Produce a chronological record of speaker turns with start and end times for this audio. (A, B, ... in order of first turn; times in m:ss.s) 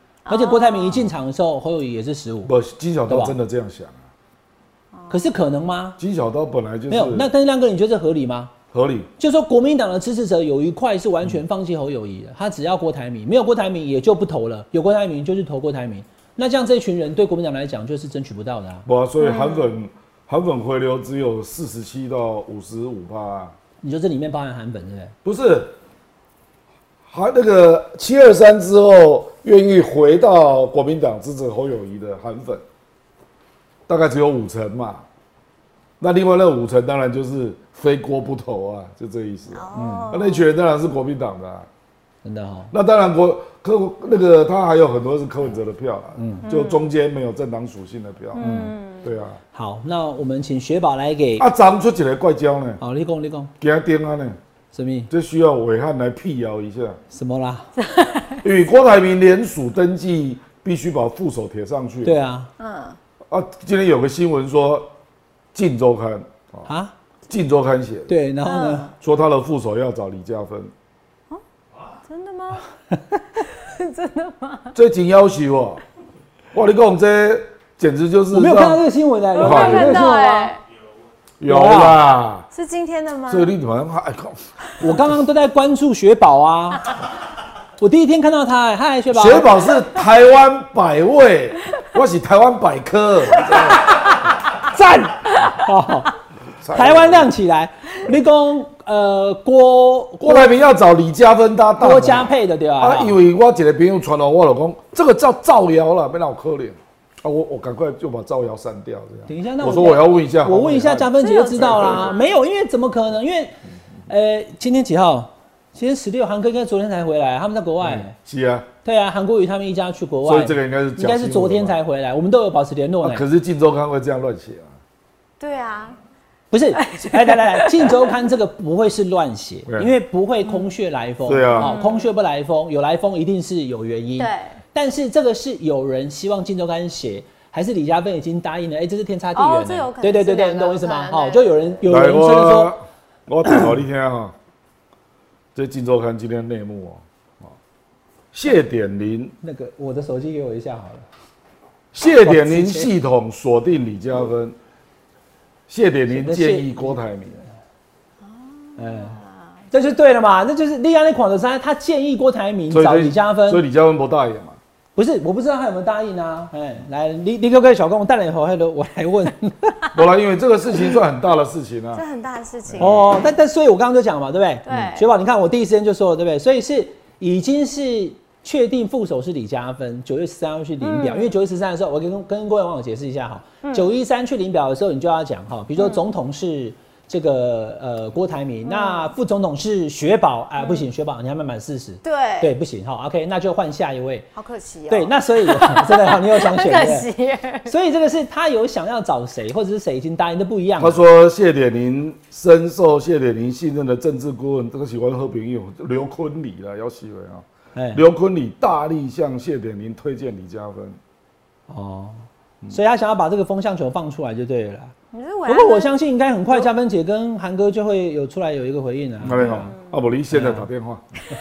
0:00.3-0:01.2 A
0:00.3-0:02.5 B
0:02.4-0:04.0 C
0:03.1-0:03.4 B
0:04.9-0:05.3 A
0:05.1-0:06.0 B
0:06.0-0:07.3 C
0:06.9-0:08.5 B
0:08.7-0:09.1 C
0:09.2-0:18.9 B
0:18.9-0:23.5 C
0:19.2-0:19.7 A
0:23.8-0:25.1 B
0:25.2-0:25.7 C
0:27.1-0:32.6 C
0:33.9-0:35.0 C
0:36.0-0:41.7 C
0:39.5-0:40.5 A
0:39.7-0:40.1 B
0:42.2-0:42.7 B
0:42.7-0:48.5 C
0:46.2-0:46.5 B
0:46.4-0:46.9 A
0:48.3-0:49.2 A
0:48.4-0:48.8 B
0:49.0-0:49.4 C
0:49.5-0:51.5 B
0:51.4-0:52.8 C
0:52.8-0:53.5 B
0:53.6-0:54.4 C
0:54.7-0:55.1 B
0:55.1-0:57.0 C
0:57.1-0:57.7 B
0:57.8-0:58.4 A
0:58.4-1:02.2 C
1:02.0-1:02.5 B
1:02.6-1:03.0 A
1:03.3-1:04.9 C
1:05.5-1:06.7 C
1:06.7-1:06.9 B
1:07.3-1:08.1 C
1:08.1-1:08.9 B
1:08.4-1:09.0 A
1:09.0-1:10.7 C
1:12.1-1:12.7 A
1:13.4-1:14.8 A
1:14.7-1:15.8 C
1:16.5-1:18.8 C
1:18.3-1:20.5 B
1:19.4-1:20.6 A
1:19.4-1:20.2 C
1:21.4-1:22.5 C
1:21.4-1:22.0 B
1:22.5-1:23.6 A
1:23.3-1:24.4 C
1:24.8-1:26.9 B
1:27.8-1:29.5 B
1:29.1-1:33.9 C
1:34.7-1:36.1 B
1:36.6-1:37.3 C
1:36.7-1:40.5 B
1:40.2-1:52.1 C
1:41.8-1:43.2 B
1:49.3-1:53.5 B
1:51.2-1:52.3 A
1:54.1-1:58.1 B
1:57.8-1:58.7 C
1:58.8-2:03.2 B
2:00.2-2:01.8 C
2:03.0-2:04.8 C
2:05.4-2:06.0 A
2:06.5-2:22.7 B
2:06.8-2:08.1 A
2:09.7-2:09.9 C
2:11.2-2:11.8 C
2:11.6-2:12.1 A
2:14.2-2:14.6 A
2:19.4-2:21.8 A
2:21.9-2:24.3 C
2:25.6-2:27.6 C
2:28.3-2:29.3 C
2:29.4-2:31.1 B
2:31.9-2:34.6 C
2:32.2-2:32.9 B
2:35.7-2:37.4 C
2:36.1-2:36.9 B
2:38.2-2:39.6 A
2:38.8-2:39.2 B
2:39.7-2:43.6 B
2:42.7-2:44.6 C
2:45.0-2:49.8 B
2:49.9-2:52.0 C
2:52.0-2:53.2 A
2:52.7-2:53.0 C
2:52.8-3:14.3 B
2:54.7-2:55.1 A
3:00.8-3:01.4 A
3:03.6-3:03.9 A
3:05.8-3:06.0 A
3:08.7-3:09.1 A
3:10.6-3:10.9 A
3:12.0-3:12.5 A
3:14.4-3:17.7 A
3:14.9-3:17.1 B
3:17.7-3:21.0 B
3:20.8-3:31.0 C
3:27.8-3:28.0 B
3:31.7-3:34.9 B
3:35.1-3:35.9 A
3:35.5-3:39.7 B
3:39.2-3:41.0 C
3:39.4-3:39.9 A
3:40.3-3:40.7 B